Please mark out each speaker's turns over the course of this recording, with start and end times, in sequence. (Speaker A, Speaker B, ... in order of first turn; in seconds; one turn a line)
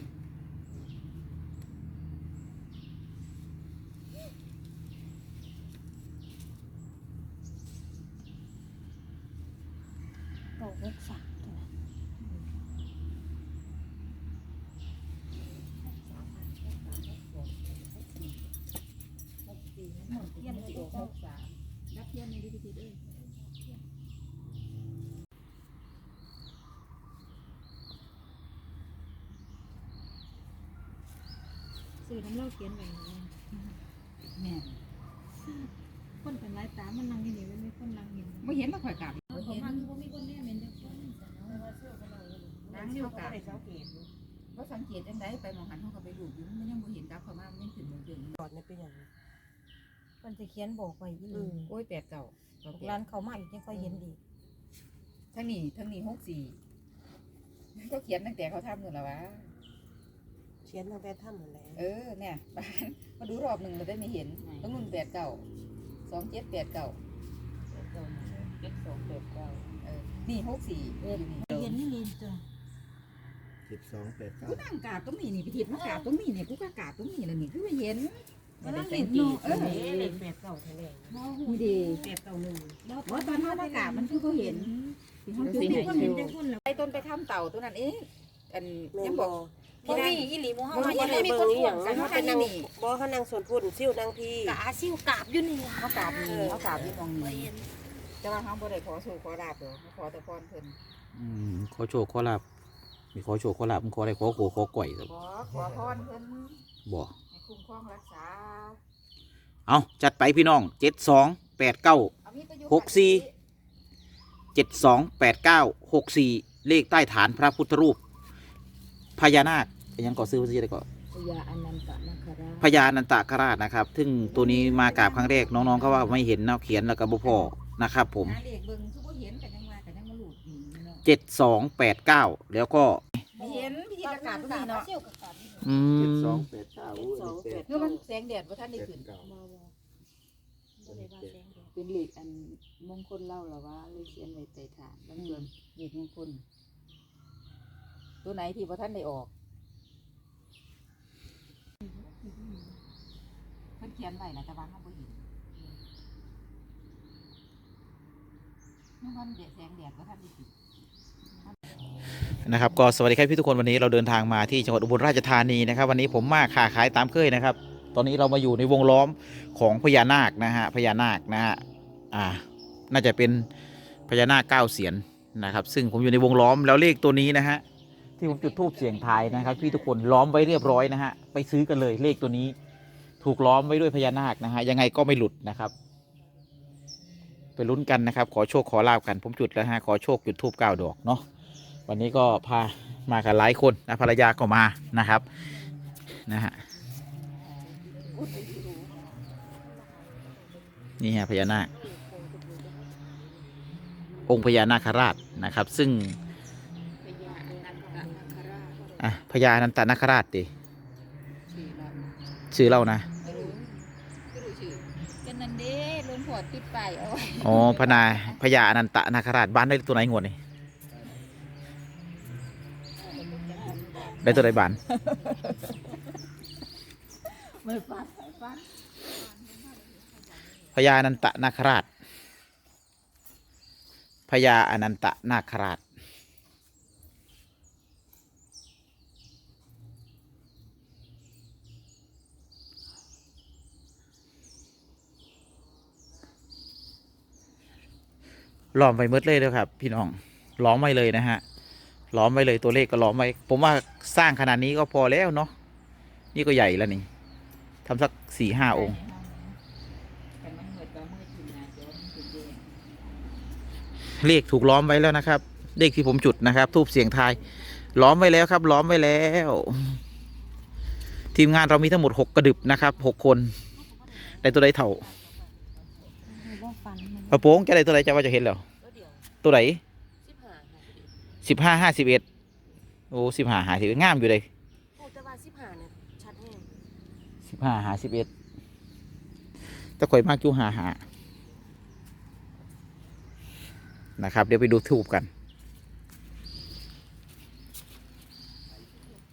Speaker A: 10.6-11.7
Speaker B: 15.9-18.4
Speaker B: 19.4-23.2
Speaker A: 20.1-21.1
Speaker A: 23.5-23.8
Speaker A: 32.0-33.3
Speaker B: 34.4-34.8
Speaker A: 36.2-38.5
Speaker B: 38.4-39.9
Speaker A: 39.3-41.7
Speaker C: 41.5-44.1
Speaker B: 42.7-43.6
Speaker B: 44.5-48.4
Speaker C: 48.4-49.1
Speaker A: 50.2-51.7
Speaker C: 51.3-51.6
Speaker B: 51.7-53.0
Speaker A: 52.7-54.2
Speaker B: 53.7-54.0
Speaker B: 55.3-56.6
Speaker B: 57.8-59.5
Speaker C: 60.6-61.9
Speaker B: 61.8-65.4
Speaker B: 66.1-67.0
Speaker B: 68.1-69.1
Speaker B: 69.8-71.8
Speaker A: 71.0-72.4
Speaker D: 73.7-74.6
Speaker B: 74.4-79.8
Speaker A: 75.7-76.1
Speaker A: 78.6-80.2
Speaker C: 79.0-82.8
Speaker A: 81.1-82.2
Speaker B: 81.4-82.1
Speaker A: 82.8-86.9
Speaker B: 83.0-92.7
Speaker C: 88.9-94.6
Speaker A: 89.8-92.4
Speaker A: 94.5-97.6
Speaker B: 95.8-97.5
Speaker C: 96.1-96.8
Speaker B: 98.2-100.8
Speaker E: 101.2-102.4
Speaker E: 103.1-105.1
Speaker B: 105.0-106.6
Speaker E: 106.9-107.1
Speaker B: 107.3-108.8
Speaker E: 109.7-112.1
Speaker B: 112.2-113.3
Speaker E: 112.7-113.2
Speaker E: 114.5-118.0
Speaker E: 119.2-120.9
Speaker B: 121.2-122.6
Speaker E: 122.6-128.4
Speaker A: 124.3-126.0
Speaker B: 124.6-125.0
Speaker B: 128.2-131.1
Speaker E: 131.1-133.0
Speaker A: 133.4-135.9
Speaker B: 133.4-134.9
Speaker E: 135.6-136.5
Speaker D: 135.9-137.7
Speaker C: 136.9-138.0
Speaker A: 137.0-137.7
Speaker B: 137.7-139.1
Speaker D: 138.8-139.3
Speaker A: 139.2-139.7
Speaker A: 140.8-141.7
Speaker D: 140.9-141.5
Speaker B: 141.8-146.4
Speaker B: 148.2-149.3
Speaker A: 151.9-152.7
Speaker B: 153.8-155.3
Speaker B: 159.0-160.5
Speaker E: 162.3-173.5
Speaker E: 174.1-177.6
Speaker E: 178.2-182.6
Speaker B: 178.6-179.7
Speaker E: 183.2-185.7
Speaker E: 187.6-191.2
Speaker E: 191.9-195.3
Speaker E: 196.3-196.6
Speaker A: 197.6-200.5
Speaker B: 198.1-198.9
Speaker E: 201.0-201.7
Speaker C: 201.7-203.7
Speaker E: 204.3-206.2
Speaker B: 207.0-208.9
Speaker A: 207.2-209.1
Speaker E: 209.0-210.5
Speaker B: 211.5-212.1
Speaker E: 212.5-213.1
Speaker B: 213.2-213.7
Speaker C: 213.3-213.6
Speaker B: 214.3-218.4
Speaker E: 217.4-220.4
Speaker B: 223.1-226.0
Speaker C: 223.2-224.5
Speaker A: 223.6-224.1
Speaker E: 224.2-224.8
Speaker B: 227.2-230.9
Speaker E: 230.7-231.9
Speaker E: 234.3-235.8
Speaker E: 248.8-251.4
Speaker E: 252.1-255.5
Speaker E: 256.4-257.1
Speaker E: 257.9-259.0
Speaker B: 258.7-259.6
Speaker B: 260.4-262.8
Speaker E: 264.2-270.0
Speaker E: 271.3-273.6
Speaker C: 273.8-275.7
Speaker E: 274.2-275.1
Speaker A: 276.3-277.4
Speaker E: 277.3-278.6
Speaker C: 278.8-279.3
Speaker E: 279.4-279.8
Speaker C: 280.2-281.1
Speaker E: 281.4-282.2
Speaker E: 283.1-284.5
Speaker C: 285.0-286.9
Speaker E: 287.5-288.3
Speaker E: 290.0-291.0
Speaker E: 294.2-295.3